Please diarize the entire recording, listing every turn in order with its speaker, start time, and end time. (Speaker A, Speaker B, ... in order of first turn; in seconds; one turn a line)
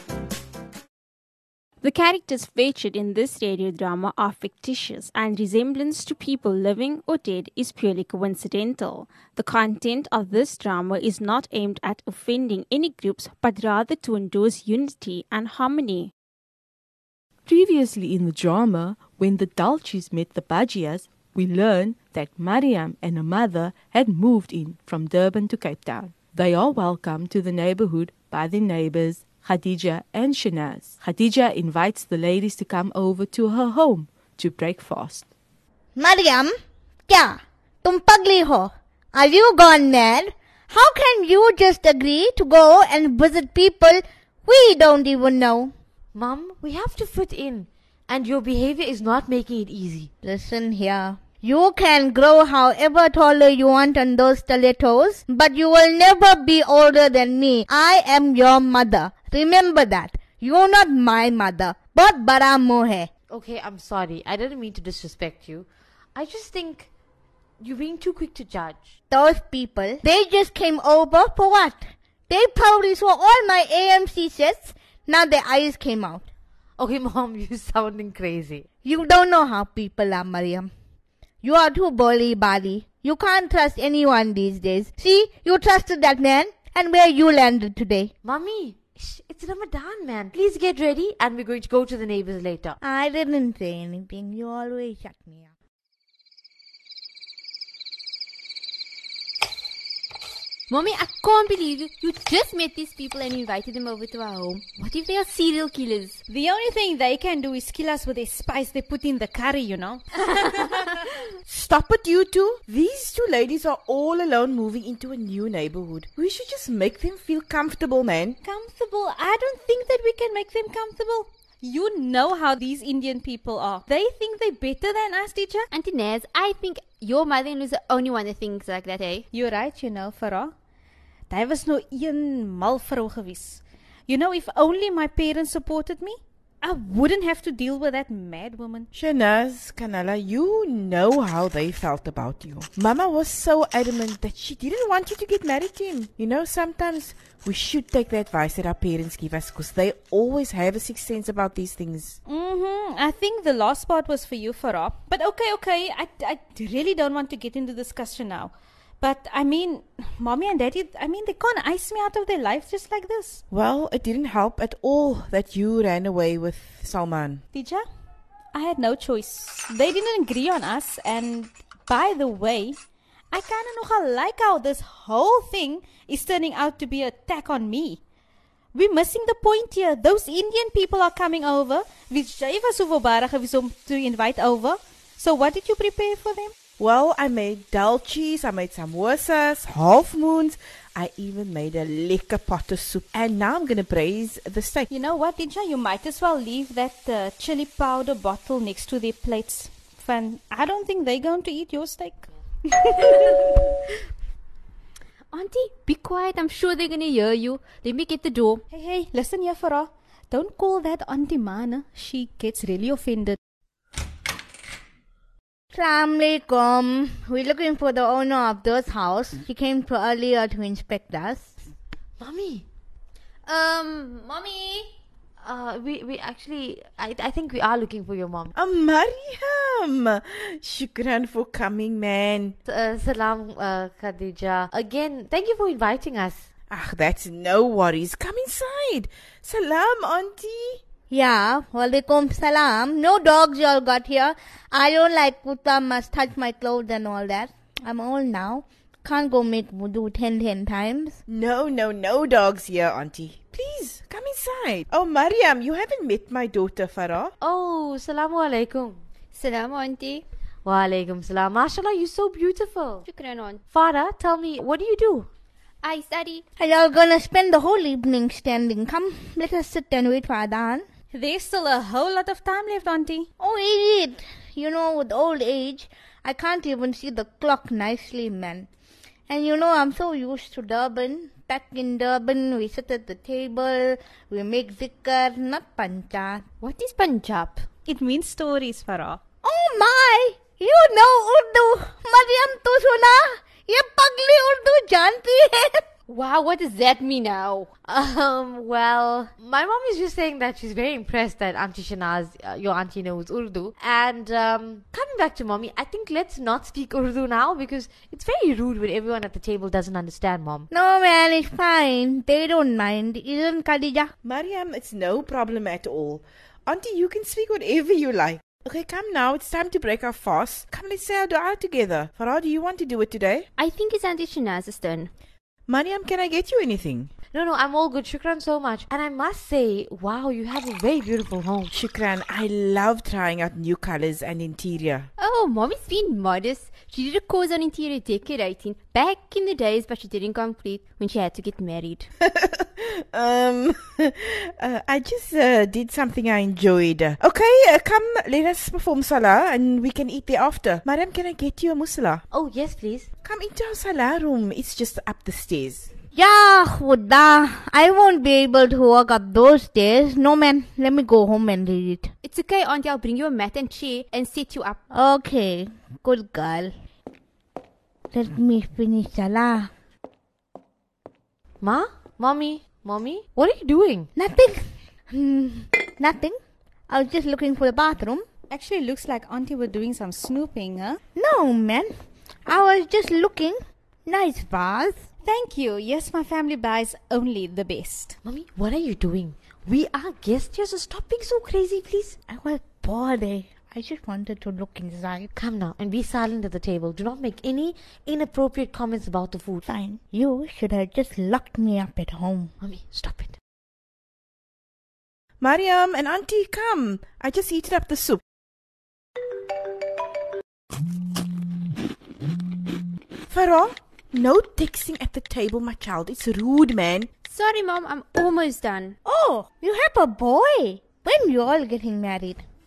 Speaker A: 1.8-16.1
Speaker B: 17.5-35.3
Speaker C: 36.0-36.5
Speaker C: 37.1-45.7
Speaker D: 46.1-50.1
Speaker C: 50.2-63.1
Speaker D: 63.3-66.9
Speaker D: 67.6-68.9
Speaker C: 69.1-76.3
Speaker D: 76.8-78.7
Speaker C: 78.8-80.7
Speaker C: 81.4-88.1
Speaker D: 88.2-92.8
Speaker C: 92.8-95.5
Speaker E: 100.7-106.2
Speaker F: 106.3-111.0
Speaker G: 111.5-118.4
Speaker F: 118.4-125.7
Speaker E: 125.7-129.2
Speaker F: 129.3-130.5
Speaker F: 131.3-138.9
Speaker G: 138.9-152.2
Speaker F: 152.3-163.4
Speaker G: 163.5-167.4
Speaker F: 167.5-167.8
Speaker F: 168.5-172.8
Speaker F: 173.3-178.0
Speaker F: 178.7-186.5
Speaker G: 186.8-194.9
Speaker F: 194.9-203.6
Speaker E: 205.3-208.6
Speaker F: 208.7-213.4
Speaker C: 215.7-221.5
Speaker D: 222.2-222.7
Speaker D: 223.8-224.5
Speaker D: 225.4-228.5
Speaker G: 228.6-232.6
Speaker D: 232.7-236.5
Speaker G: 236.7-240.8
Speaker C: 241.1-251.2
Speaker G: 251.3-257.3
Speaker D: 257.4-259.0
Speaker E: 259.3-260.2
Speaker D: 260.6-263.1
Speaker E: 263.1-263.6
Speaker D: 263.7-265.3
Speaker E: 265.8-266.4
Speaker C: 266.6-270.9
Speaker F: 271.1-273.3
Speaker C: 273.4-278.7
Speaker C: 279.3-286.4
Speaker E: 286.6-287.6
Speaker F: 287.9-289.2
Speaker C: 289.4-295.8
Speaker E: 296.1-297.7
Speaker D: 297.8-310.7
Speaker C: 310.7-314.1
Speaker G: 314.2-323.5
Speaker E: 323.6-325.1
Speaker G: 325.7-327.1
Speaker D: 327.3-331.7
Speaker G: 331.7-335.1
Speaker E: 335.2-342.1
Speaker G: 342.3-352.2
Speaker D: 352.3-353.1
Speaker G: 353.2-355.9
Speaker C: 356.1-362.1
Speaker E: 362.2-364.8
Speaker C: 364.9-366.7
Speaker C: 368.1-369.7
Speaker D: 371.6-374.1
Speaker C: 374.2-376.4
Speaker C: 376.9-378.2
Speaker F: 378.5-381.0
Speaker C: 381.2-381.9
Speaker C: 382.5-385.1
Speaker F: 385.2-388.2
Speaker D: 388.2-392.2
Speaker C: 392.3-395.3
Speaker D: 395.3-399.6
Speaker C: 399.7-402.5
Speaker D: 402.6-403.4
Speaker G: 405.4-408.2
Speaker G: 413.3-417.1
Speaker E: 417.2-419.0
Speaker C: 419.1-422.4